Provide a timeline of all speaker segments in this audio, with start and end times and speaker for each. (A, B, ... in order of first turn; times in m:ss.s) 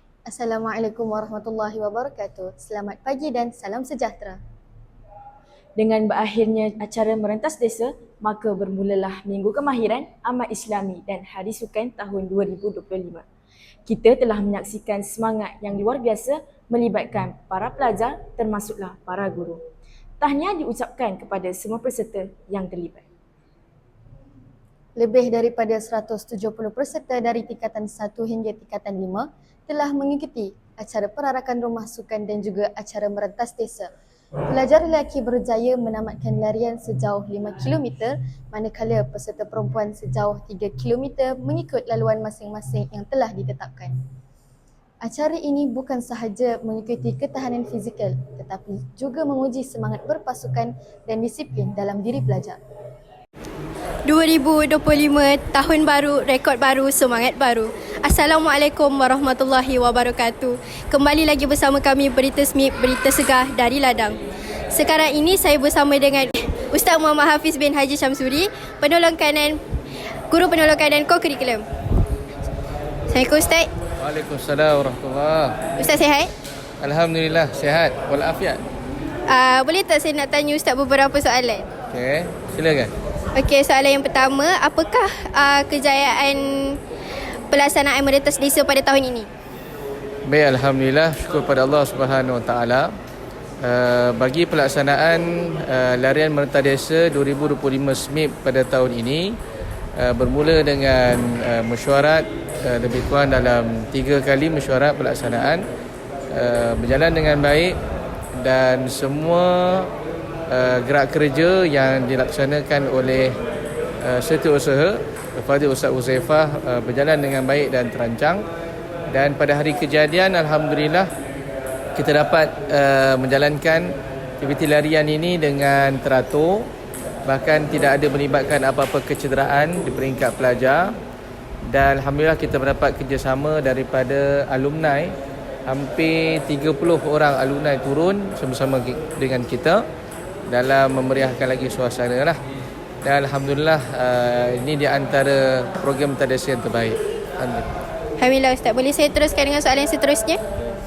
0:00.3-0:04.4 A
0:05.8-0:13.2 B
0:13.9-0:19.6 B
0:20.2-0:23.0 B
0:25.0-0:33.9 A
0:34.5-0:43.9 A
0:45.0-0:52.6 A
0:54.1-1:04.2 C
1:04.7-1:09.6 C
1:10.3-1:11.6 C
1:13.1-1:13.7 C
1:14.0-1:15.6 D
1:15.8-1:16.3 C
1:16.8-1:18.6 D
1:19.3-1:21.7 C
1:21.9-1:22.9 D
1:23.4-1:26.8 C
1:27.5-1:29.3 C
1:30.3-1:32.9 D
1:33.6-1:39.4 D
1:40.0-1:45.6 D
1:46.3-1:47.8 D
1:48.4-1:49.9 D
1:50.5-1:53.4 D
1:54.0-1:58.5 D
1:59.1-2:01.1 D
2:02.0-2:06.7 D
2:07.3-2:11.0 D
2:11.7-2:15.1 D
2:15.7-2:19.8 D
2:20.5-2:22.4 D
2:23.0-2:27.7 D
2:28.2-2:30.4 C